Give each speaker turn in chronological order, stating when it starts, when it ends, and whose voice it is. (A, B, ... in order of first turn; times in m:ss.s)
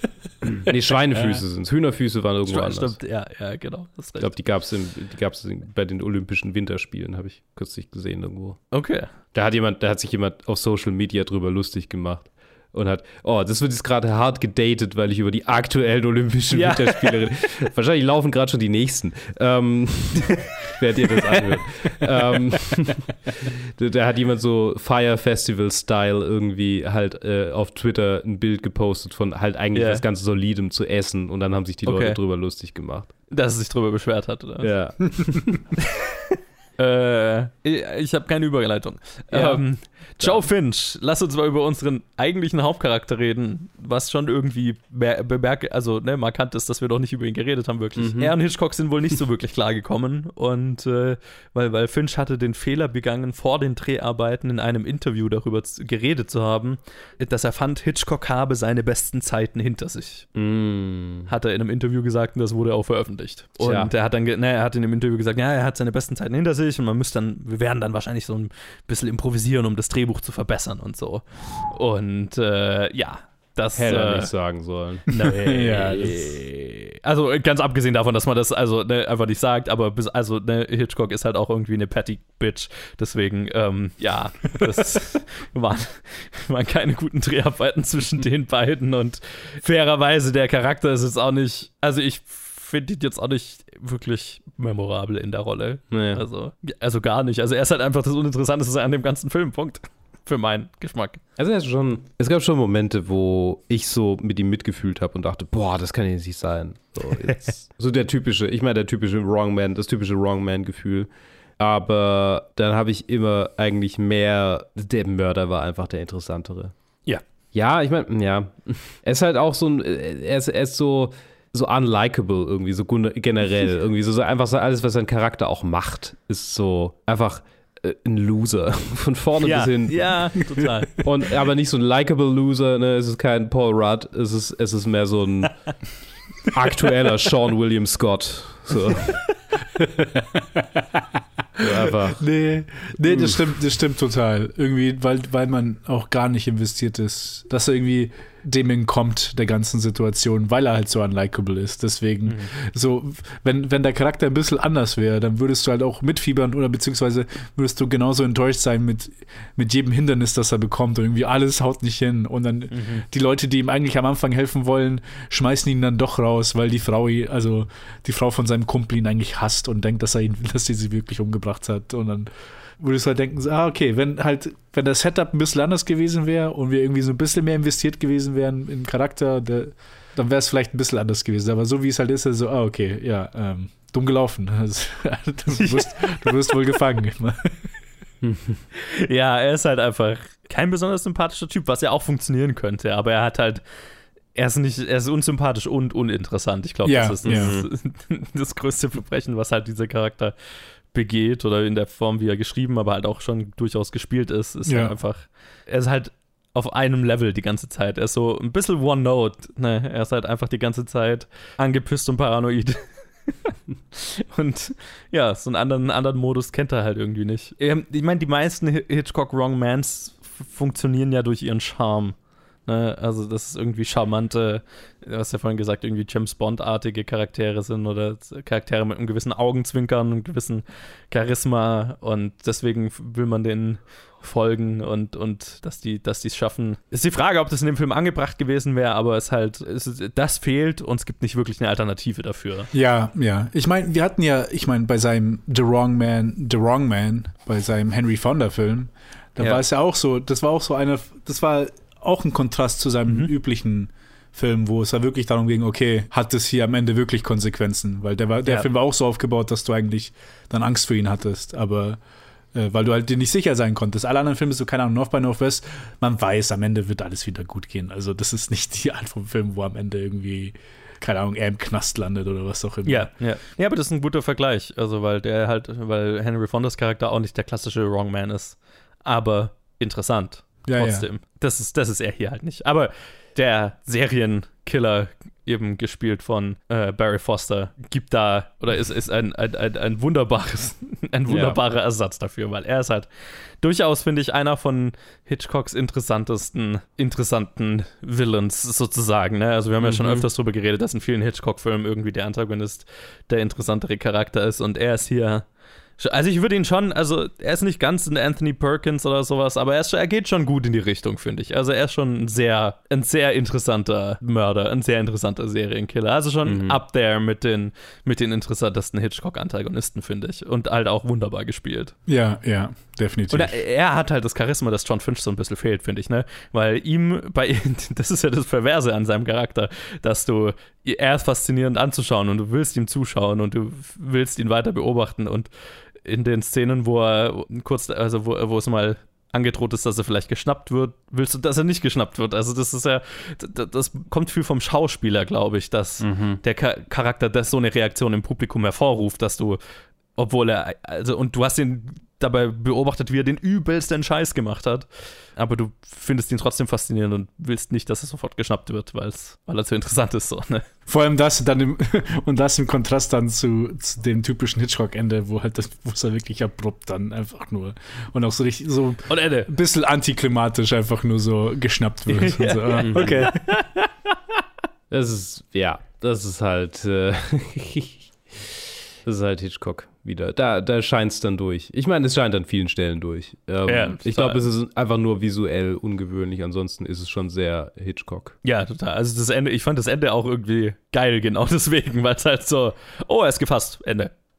0:00.4-0:03.0 A
0:01.1-0:01.4 B
0:02.5-0:04.4 B
0:04.2-0:08.8 A
0:08.7-0:09.1 B
0:09.3-0:33.1 A
0:16.5-0:17.6 B
0:21.9-0:22.2 B
0:29.7-0:30.0 B
0:31.8-0:32.2 B
0:33.3-0:35.3 B
0:34.6-0:35.7 A
0:36.8-1:00.3 B
0:39.3-0:40.5 A
0:48.0-0:48.3 A
1:00.4-1:01.3 A
1:01.3-1:14.3 B
1:03.6-1:03.9 A
1:13.8-1:15.1 A
1:15.1-1:41.2 B
1:15.2-1:16.3 C
1:35.9-1:36.2 A
1:41.4-1:51.1 A
1:51.6-1:56.7 A
1:57.5-2:10.5 A
2:09.4-2:11.0 B
2:11.0-2:15.8 A
2:16.5-2:19.3 A
2:20.2-2:21.0 C
2:21.6-2:22.3 A
2:22.2-3:07.7 C
2:23.1-2:23.4 A
2:42.7-2:43.1 B
3:05.5-3:06.6 B
3:08.2-3:08.6 A
3:08.8-3:13.6 B
3:14.4-3:20.3 B
3:16.8-3:17.6 C
3:17.2-3:17.7 A
3:20.9-4:02.7 B
3:24.7-3:25.0 C
4:02.7-4:22.0 C
4:22.5-4:33.1 C
4:32.9-4:53.1 B
4:40.7-4:41.1 C
4:51.3-4:51.6 A
4:53.6-5:05.5 B
4:59.8-5:00.3 A
5:06.0-5:21.9 B
5:16.4-5:16.8 A
5:22.1-5:23.6 C
5:23.3-5:35.5 B
5:36.0-5:49.6 B
5:46.0-5:46.4 A
5:50.2-6:00.7 B
6:00.9-6:13.5 C
6:09.1-6:09.5 B
6:12.1-6:13.9 B
6:12.8-6:13.2 A
6:14.9-6:18.5 A
6:19.0-6:28.4 A
6:23.6-6:24.4 B
6:28.4-6:34.1 B